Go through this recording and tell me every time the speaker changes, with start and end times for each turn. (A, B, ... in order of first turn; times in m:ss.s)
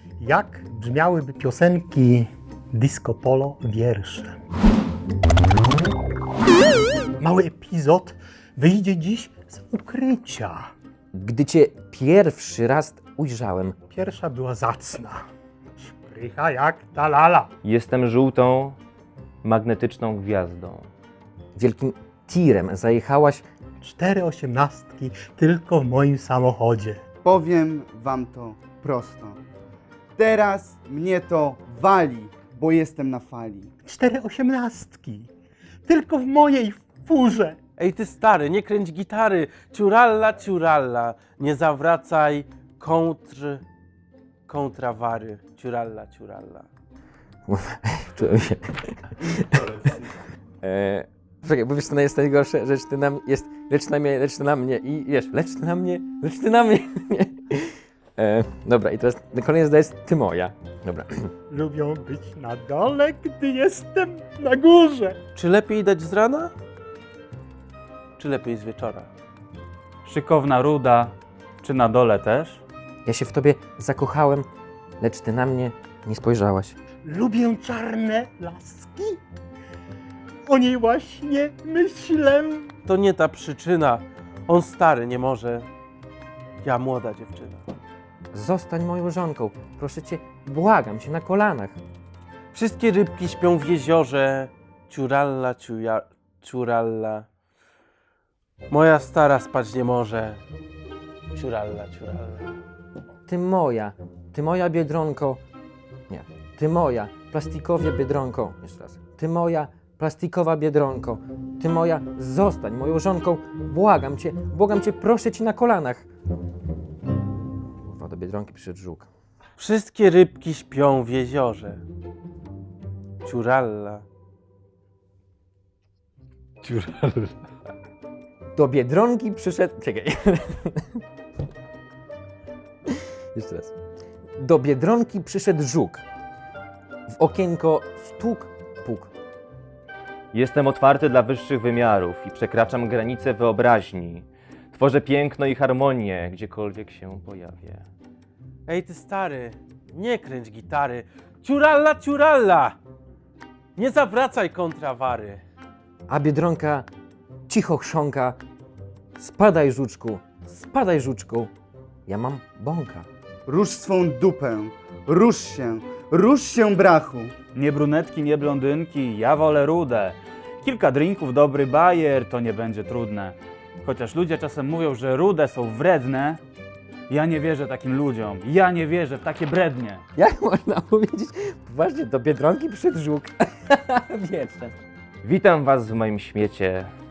0:00.2-0:04.4 A
0:07.2-0:10.7 A
0:11.1-0:13.8 B
0:13.9-0:15.2 A
0:15.8-0:17.5 A
0:17.6-0:18.8 C
0:19.4-0:20.9 C
0:21.6-0:23.4 B
0:23.8-0:27.0 A
0:27.2-0:29.4 D
0:30.2-0:33.7 D
0:33.8-0:35.3 A
0:35.9-0:37.6 A
0:37.8-0:43.6 E
0:44.5-0:46.7 E
0:47.5-0:50.0 B
0:50.6-1:01.3 B
1:01.5-1:05.2 A
1:05.3-1:06.5 E
1:08.2-1:09.1 E
1:10.0-1:12.6 F
1:13.0-1:14.5 B
1:15.0-1:16.8 B
1:17.0-1:19.2 A
1:20.4-1:22.7 A
1:22.9-1:25.7 E
1:26.6-1:27.7 E
1:28.3-1:31.8 B
1:32.5-1:37.3 E
1:38.7-1:40.4 E
1:41.3-1:42.5 E
1:43.3-1:45.4 B
1:46.1-1:56.1 B
1:57.8-1:59.1 B
1:59.6-2:01.8 E
2:03.2-2:04.0 E
2:06.6-2:07.2 F
2:06.7-2:07.3 C
2:08.5-2:11.0 B
2:12.9-2:13.7 B
2:14.4-2:16.0 B
2:17.1-2:19.1 B
2:20.3-2:24.2 C
2:24.8-2:27.8 C
2:28.7-2:32.8 E
2:33.8-2:35.4 E
2:36.1-2:36.9 B
2:37.5-2:38.4 B
2:39.2-2:41.5 B
2:42.1-2:43.1 B
2:43.4-2:47.3 D
2:47.5-2:56.4 F
2:57.1-3:00.0 F
3:00.2-3:04.8 B
3:05.2-3:06.9 C